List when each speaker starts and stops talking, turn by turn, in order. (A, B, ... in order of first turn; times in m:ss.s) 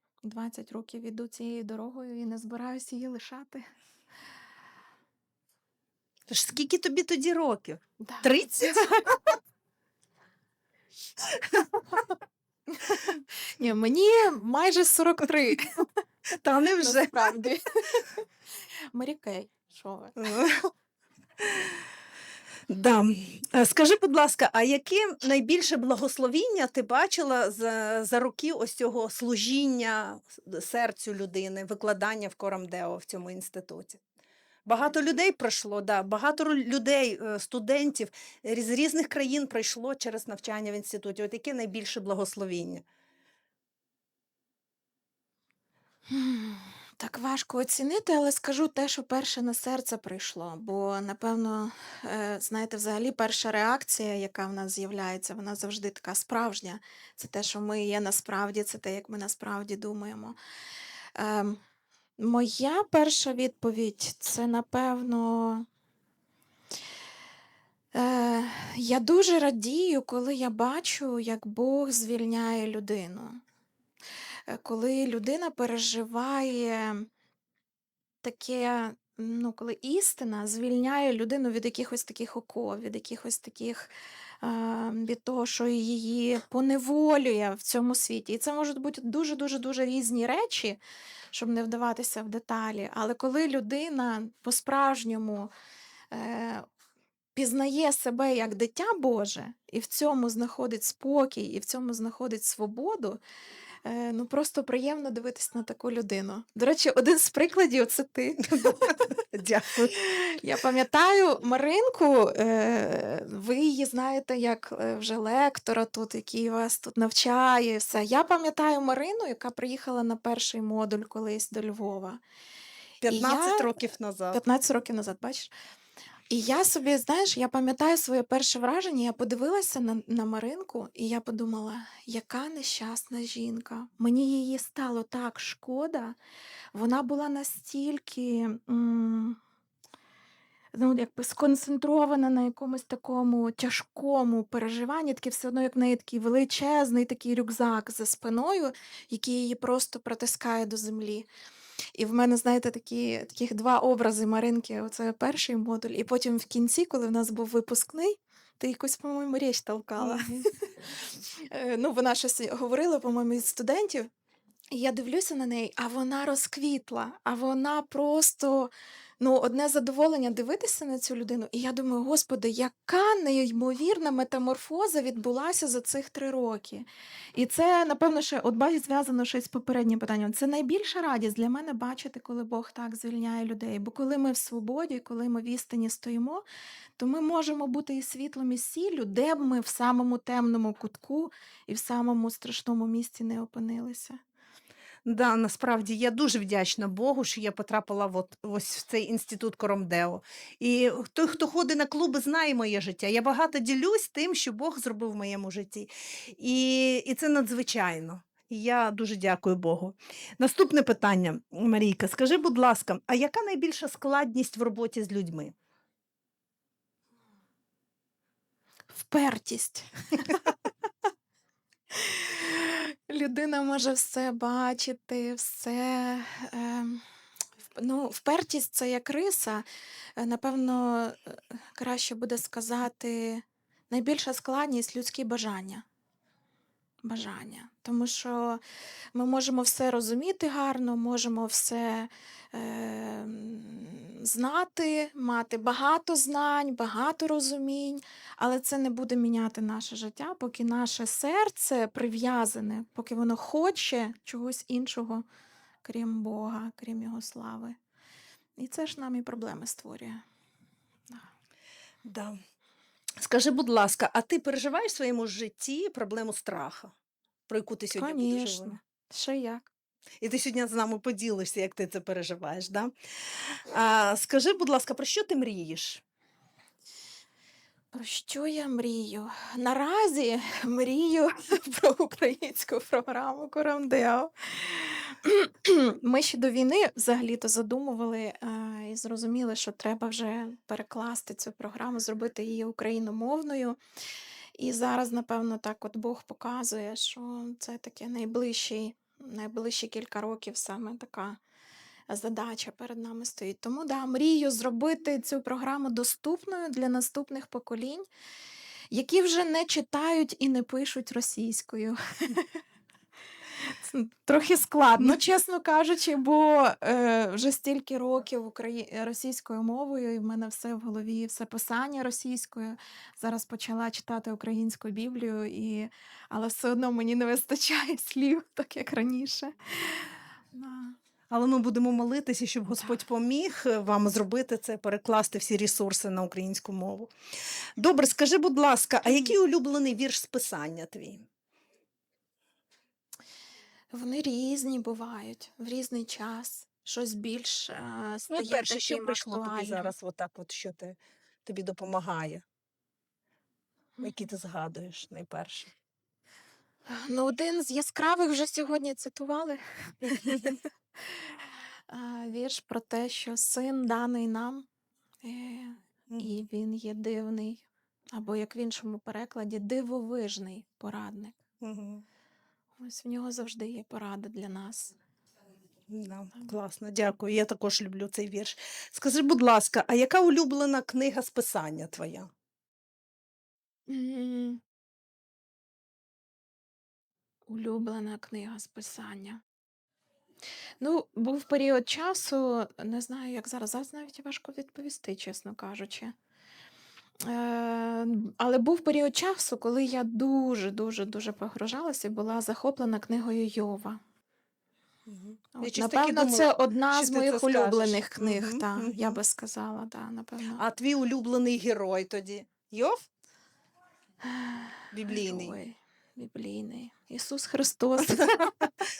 0:00.2-0:03.6 A
0:06.3-0:09.2 B
0:08.0-0:08.9 A
0:11.6-0:12.0 A
0:12.7-0:15.8 A
0:16.3-0:17.4 B
0:16.8-0:18.2 A
0:18.9-0:20.3 A
0:20.2-0:20.7 B
0:22.7-0:34.0 B
0:34.6-0:42.8 B
0:46.1-1:00.4 A
1:01.2-1:01.6 A
1:02.2-1:05.7 A
1:07.9-1:13.4 A
1:14.5-1:17.1 A
1:18.2-1:30.8 A
1:31.3-1:35.5 A
1:36.1-1:36.6 A
1:37.3-1:43.2 A
1:43.8-1:48.9 A
1:48.4-1:50.0 B
1:49.9-2:02.2 A
2:03.0-2:04.4 B
2:03.0-2:03.8 A
2:04.3-2:05.5 A
2:06.3-2:16.2 A
2:16.7-2:19.4 A
2:20.7-2:31.3 A
2:31.9-2:44.1 A
2:40.0-2:40.3 B
2:44.7-3:06.4 A
3:07.0-3:14.2 A
3:15.0-3:35.5 B
3:38.9-3:40.6 A
3:41.9-3:47.0 A
3:47.8-3:49.6 A
3:50.2-3:55.8 A
3:57.0-3:58.6 A
3:59.1-4:15.2 A
4:15.8-4:17.8 A
4:18.6-4:20.2 A
4:22.0-4:22.4 B
4:23.2-4:26.9 B
4:27.5-4:28.8 B
4:27.9-4:29.6 A
4:30.2-4:32.9 B
4:33.6-4:36.0 B
4:37.9-4:53.8 A
4:54.6-5:01.4 A
5:02.1-5:08.1 A
5:08.9-5:12.6 A
5:13.6-5:31.0 A
5:14.9-5:15.2 B
5:31.3-5:37.1 B
5:37.8-5:41.2 B
5:39.0-5:39.3 A
5:43.9-5:49.9 A
5:48.3-5:52.4 B
5:54.0-5:55.7 B
5:56.9-6:04.7 A
6:05.2-6:11.4 A
6:11.6-6:12.0 B
6:12.8-6:15.0 A
6:15.9-6:22.3 B
6:23.9-6:24.6 A
6:27.5-6:29.4 A
6:30.8-6:36.1 A
6:37.2-6:44.0 A
6:45.1-6:49.2 B
6:45.6-6:50.6 A
6:50.6-6:53.0 B
6:54.2-6:58.7 A
6:54.9-6:55.5 B